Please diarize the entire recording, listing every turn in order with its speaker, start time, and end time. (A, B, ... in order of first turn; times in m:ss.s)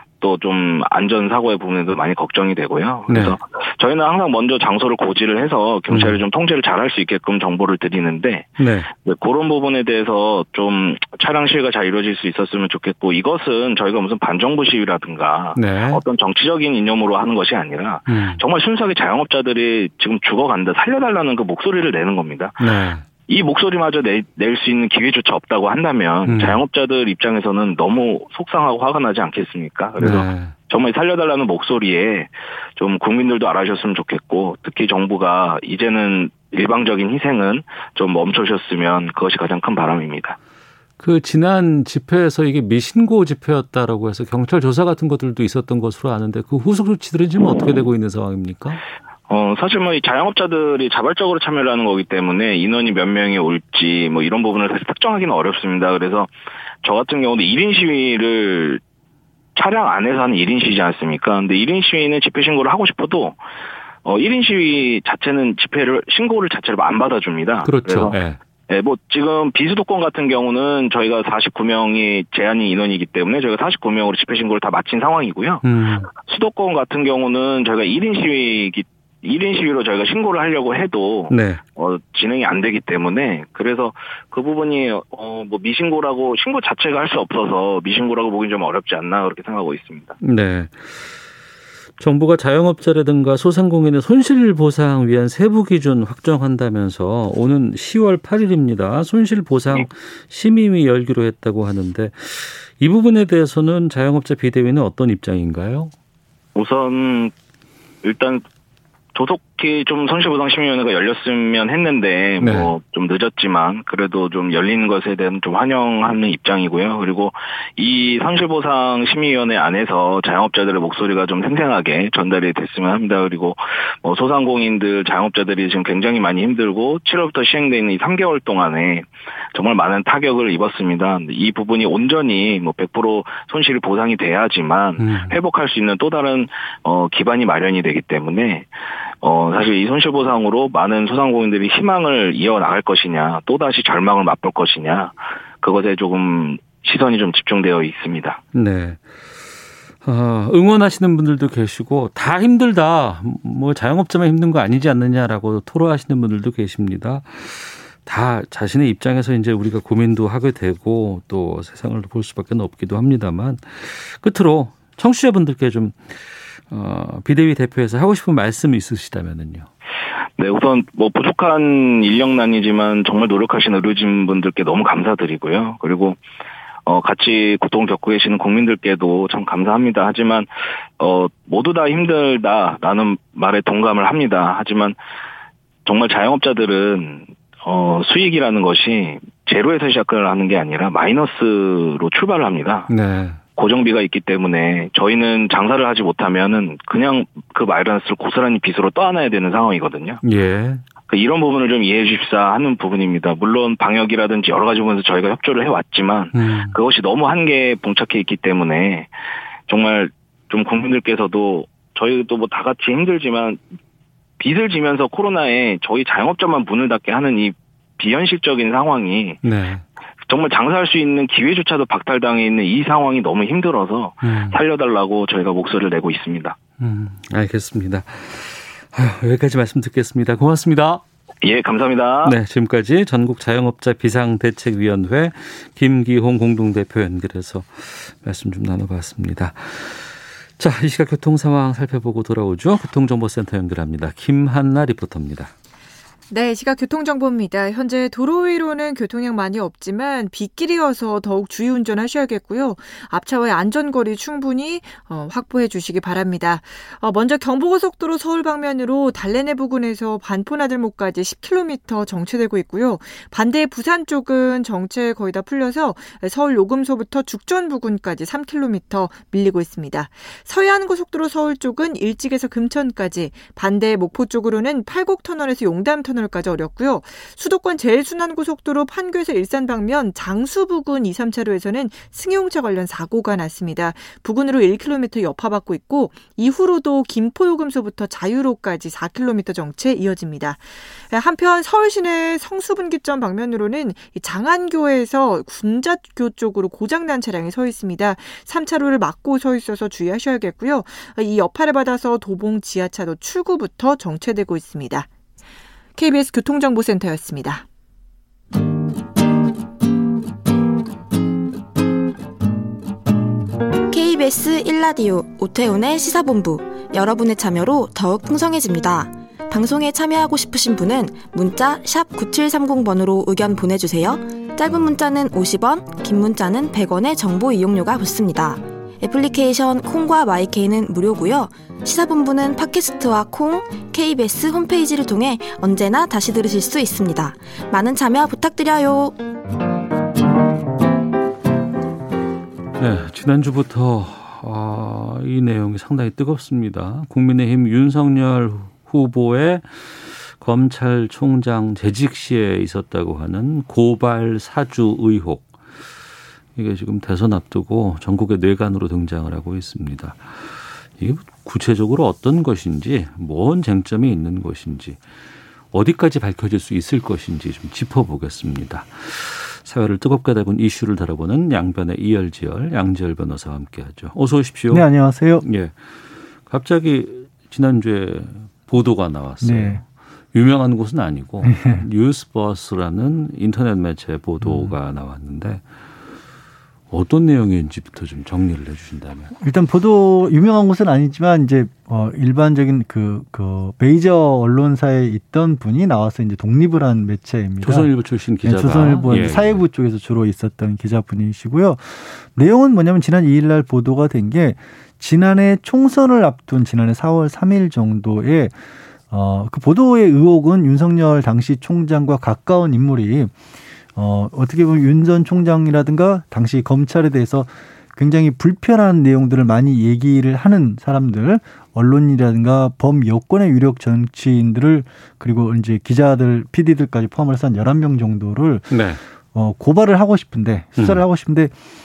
0:00.2-0:22.6 A
0:03.1-0:03.4 B
0:05.9-0:06.2 B
0:08.6-0:08.9 B
0:15.6-0:16.0 B
0:18.1-0:18.4 B
0:22.6-0:23.0 B
0:23.3-0:40.4 A
0:26.2-0:26.6 B
0:30.0-0:30.5 B
0:41.0-0:48.8 B
0:49.3-0:56.3 A
0:56.8-0:58.8 A
0:59.6-1:03.4 A
1:04.0-1:08.2 A
1:07.6-1:08.4 B
1:08.7-1:30.2 A
1:15.6-1:16.1 B
1:21.3-1:21.6 B
1:30.2-1:31.2 B
1:32.0-1:45.9 B
1:46.6-1:47.3 A
1:48.0-1:48.4 A
1:49.2-2:18.7 A
1:52.4-1:52.7 B
2:15.0-2:15.4 B
2:19.2-2:28.4 A
2:28.5-2:29.2 B
2:30.0-2:49.7 B
2:50.4-2:56.2 A
2:56.9-3:00.5 A
3:01.0-3:05.0 A
3:05.8-3:12.9 A
3:12.9-3:13.4 B
3:13.6-3:20.2 A
3:20.2-3:20.8 B
3:21.1-3:29.1 A
3:26.3-3:26.8 B
3:29.7-3:33.6 A
3:34.4-3:39.4 A
3:39.4-3:39.8 B
3:40.3-3:46.6 A
3:44.2-3:44.6 B
3:46.8-3:51.0 B
3:51.4-3:52.4 A
3:52.2-4:05.5 B
4:06.3-5:05.1 C
5:06.0-5:07.6 C
5:13.9-5:39.2 D
5:42.8-5:55.6 B
5:56.6-6:05.0 B
6:05.7-6:14.9 B
6:14.7-6:15.4 E
6:15.4-6:15.8 B
6:16.5-6:25.6 B
6:19.4-6:19.8 E
6:21.4-6:21.8 E
6:24.4-6:24.7 E
6:26.9-6:29.3 B
6:29.4-6:48.6 E
6:37.6-6:39.6 B
6:49.1-6:53.3 E
6:54.0-7:08.7 E
7:08.7-7:09.0 B
7:09.3-7:11.5 E
7:10.8-7:11.0 B